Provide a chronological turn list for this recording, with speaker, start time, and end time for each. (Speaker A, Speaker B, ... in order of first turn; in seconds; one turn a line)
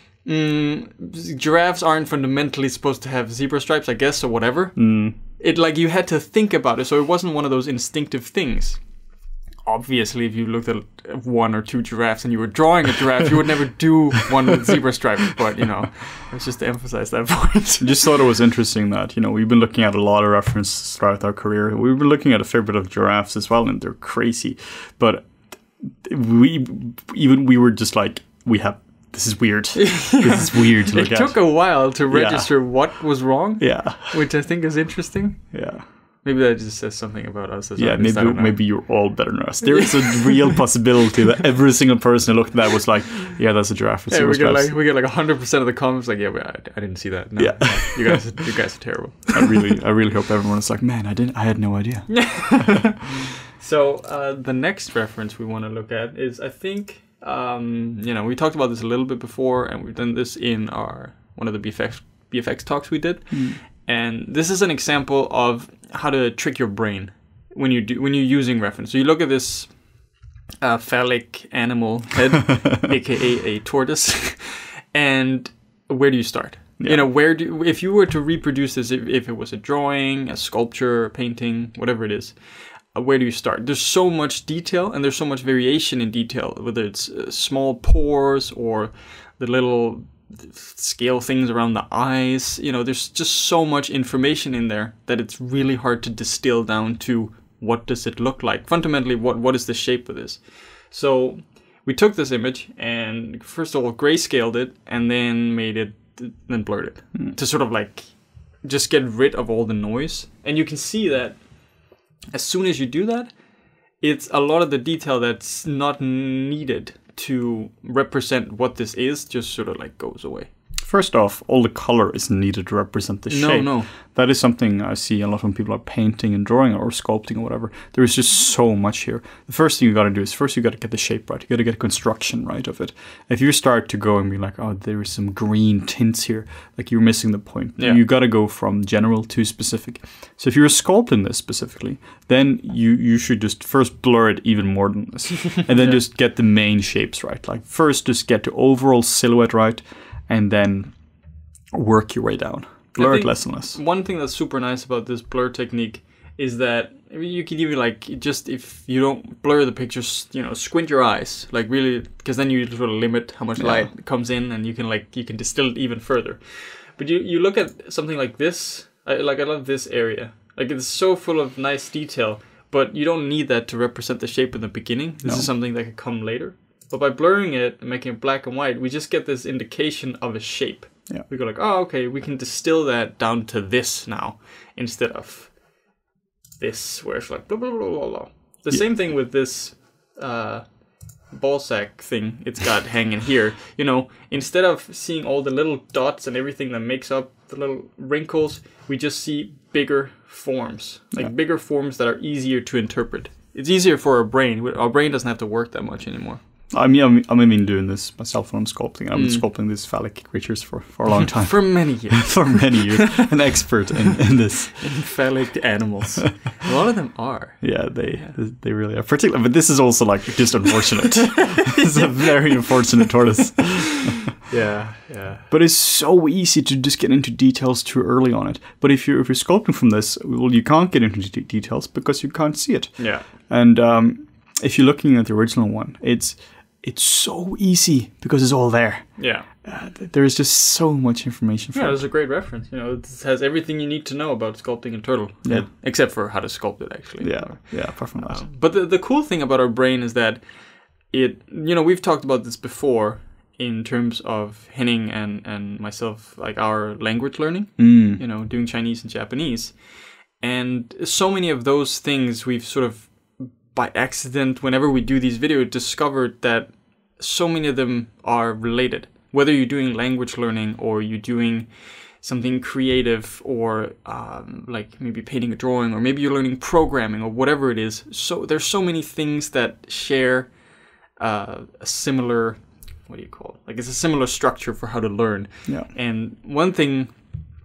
Speaker A: 0.2-8.9
Speaker B: 4.8-5.2
Speaker A: 9.6-18.2
Speaker B: 17.8-32.9
Speaker A: 29.7-35.7
Speaker B: 33.6-34.2
Speaker B: 35.5-35.8
Speaker A: 36.2-39.0
Speaker B: 37.8-44.8
Speaker A: 40.2-40.6
Speaker A: 44.1-49.6
Speaker B: 47.4-48.4
Speaker B: 49.3-52.9
Speaker A: 52.1-70.1
Speaker B: 63.3-63.6
Speaker A: 70.6-111.5
Speaker B: 76.8-77.1
Speaker A: 112.3-113.3
Speaker A: 114.0-120.5
Speaker B: 120.8-151.0
Speaker A: 123.3-123.9
Speaker A: 145.7-146.0
Speaker B: 151.7-153.8
Speaker A: 152.9-185.8
Speaker B: 163.6-163.9
Speaker B: 175.2-175.5
Speaker A: 186.6-190.7
Speaker A: 191.2-206.4
Speaker B: 206.7-215.1
Speaker A: 209.1-209.4
Speaker A: 211.3-213.7
Speaker A: 214.8-218.4
Speaker B: 217.6-224.1
Speaker A: 221.5-222.1
Speaker A: 224.4-225.4
Speaker B: 225.5-242.0
Speaker A: 233.0-233.3
Speaker A: 239.2-239.5
Speaker A: 241.7-250.4
Speaker B: 245.4-245.7
Speaker B: 247.2-248.4
Speaker A: 251.1-280.6
Speaker B: 257.8-258.2
Speaker A: 281.1-287.2